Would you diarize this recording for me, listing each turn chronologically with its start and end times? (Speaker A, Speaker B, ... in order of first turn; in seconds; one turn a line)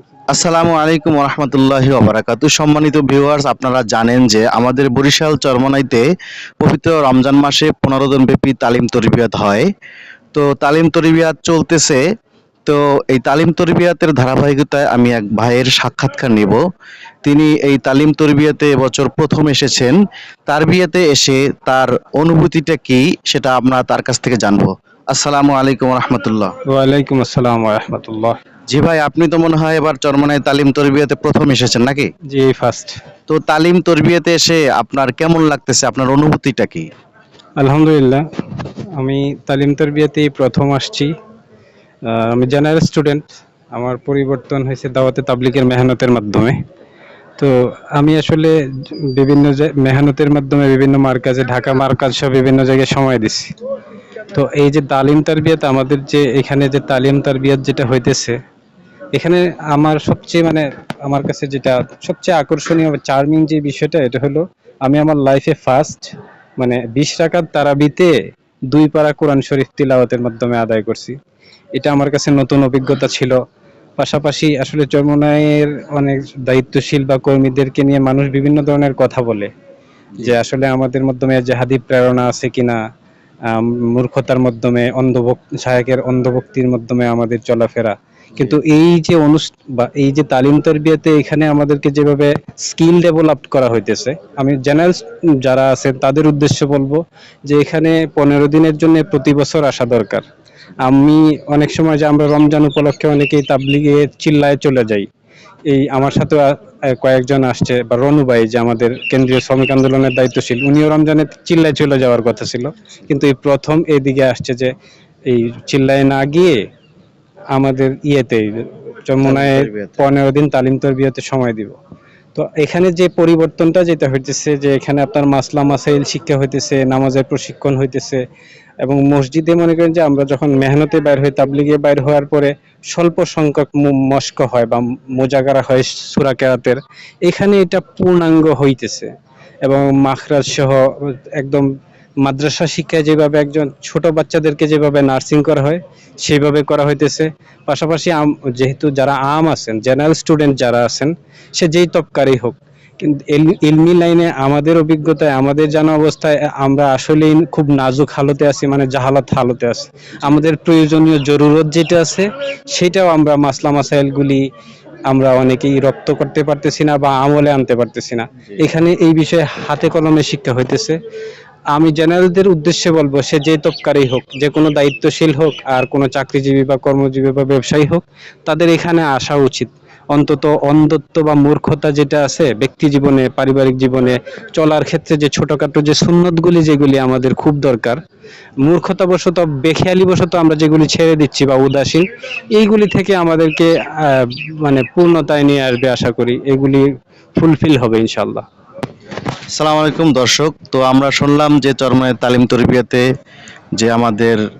Speaker A: 0.3-6.0
Speaker A: 6.6-9.7
Speaker A: 10.3-12.0
Speaker A: 12.7-16.6
Speaker A: 17.2-20.0
Speaker A: 20.5-26.5
Speaker B: 26.7-28.4
Speaker A: 28.7-32.1
Speaker B: 32.3-33.0
Speaker A: 33.3-36.8
Speaker B: 37.6-38.2
Speaker B: 39.0-41.1
Speaker B: 42.1-46.6
Speaker B: 47.4-48.6
Speaker B: 49.1-53.5
Speaker B: 54.3-58.4
Speaker B: 59.1-68.2
Speaker B: 68.7-71.2
Speaker B: 71.8-73.4
Speaker B: 74.0-79.5
Speaker B: 80.2-82.8
Speaker B: 83.5-100.2
Speaker B: 100.8-105.1
Speaker B: 105.7-114.7
Speaker B: 115.3-116.7
Speaker B: 117.5-121.8
Speaker A: 119.2-120.0
Speaker B: 122.3-128.2
Speaker B: 128.8-139.1
Speaker B: 139.6-141.7
Speaker B: 142.2-164.4
Speaker B: 165.1-171.0
Speaker B: 171.7-188.0
Speaker B: 188.6-196.9
Speaker B: 197.4-198.4
Speaker A: 199.6-203.0
Speaker A: 203.8-204.4